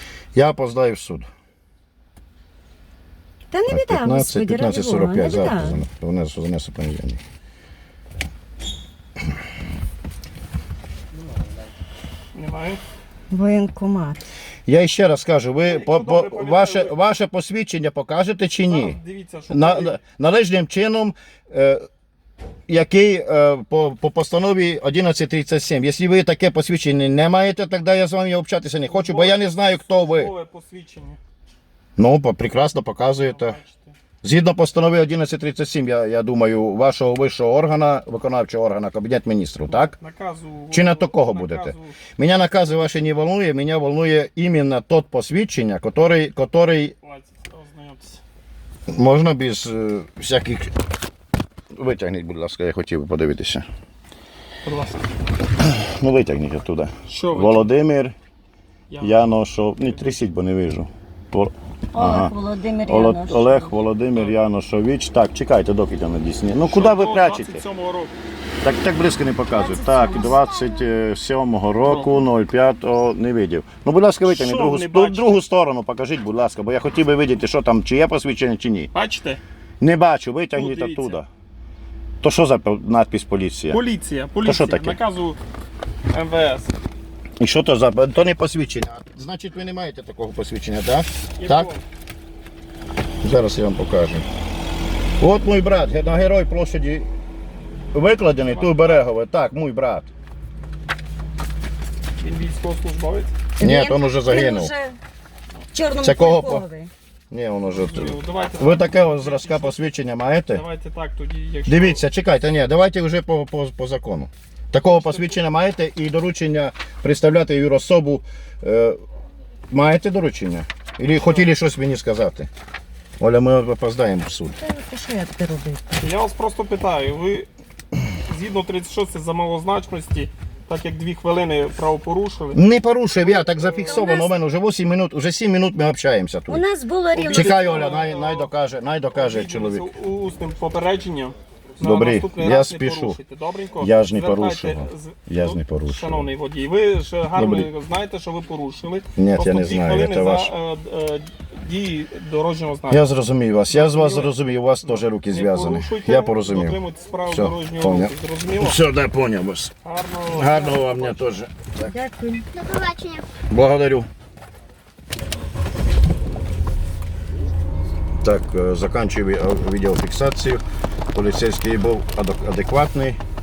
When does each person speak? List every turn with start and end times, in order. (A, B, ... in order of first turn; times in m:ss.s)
0:00.3-0:01.3 A
0:03.5-0:05.8 B
0:03.7-0:07.2 A
0:12.3-0:12.8 C
0:13.3-0:14.3 B
0:14.7-0:19.0 A
0:15.6-0:17.0 C
0:18.6-0:20.0 C
0:19.5-0:21.8 A
0:22.7-0:30.3 A
0:28.8-0:31.2 C
0:32.0-0:33.6 A
0:33.1-0:34.0 C
0:34.2-0:39.9 A
0:39.7-0:42.0 C
0:40.7-0:47.0 A
0:47.0-0:48.2 C
0:48.9-0:50.7 A
0:51.7-0:53.6 A
0:54.6-0:55.1 C
0:55.6-0:58.2 A
0:57.1-0:57.8 C
0:58.9-0:59.4 C
0:59.0-1:02.3 A
1:01.9-1:03.7 B
1:02.9-1:07.6 A
1:06.6-1:08.1 C
1:08.6-1:18.9 A
1:09.5-1:10.5 B
1:11.8-1:12.2 C
1:14.2-1:15.4 C
1:18.9-1:19.4 C
1:19.8-1:21.3 A
1:20.5-1:21.2 C
1:22.2-1:23.8 A
1:23.7-1:25.4 C
1:24.4-1:25.0 A
1:26.1-1:26.8 C
1:27.4-1:31.7 A
1:31.4-1:31.8 C
1:33.2-1:34.2 A
1:35.2-1:37.1 A
1:37.9-1:40.1 A
1:38.4-1:39.0 C
1:42.2-1:43.3 C
1:43.6-1:45.0 B
1:43.6-1:44.7 A
1:45.7-1:46.9 B
1:46.0-1:46.6 A
1:47.3-1:50.6 A
1:47.7-1:49.9 C
1:50.5-1:52.0 C
1:51.7-1:59.0 A
1:54.8-1:55.4 C
1:59.7-2:02.5 A
2:01.1-2:01.5 C
2:03.2-2:04.6 A
2:04.6-2:06.0 B
2:06.0-2:07.5 C
2:08.2-2:12.6 C
2:12.5-2:16.6 A
2:13.2-2:14.2 C
2:13.9-2:14.3 B
2:16.5-2:17.8 B
2:17.1-2:18.5 C
2:17.3-2:19.9 A
2:19.1-2:33.0 C
2:21.8-2:23.2 A
2:23.8-2:26.3 A
2:27.3-2:27.7 A
2:29.2-2:30.5 A
2:32.9-2:39.7 A
2:33.7-2:38.8 C
2:39.8-2:41.4 C
2:40.3-2:41.9 A
2:41.9-2:43.0 B
2:43.5-2:44.1 A
2:48.2-2:50.6 A
2:51.1-2:53.2 A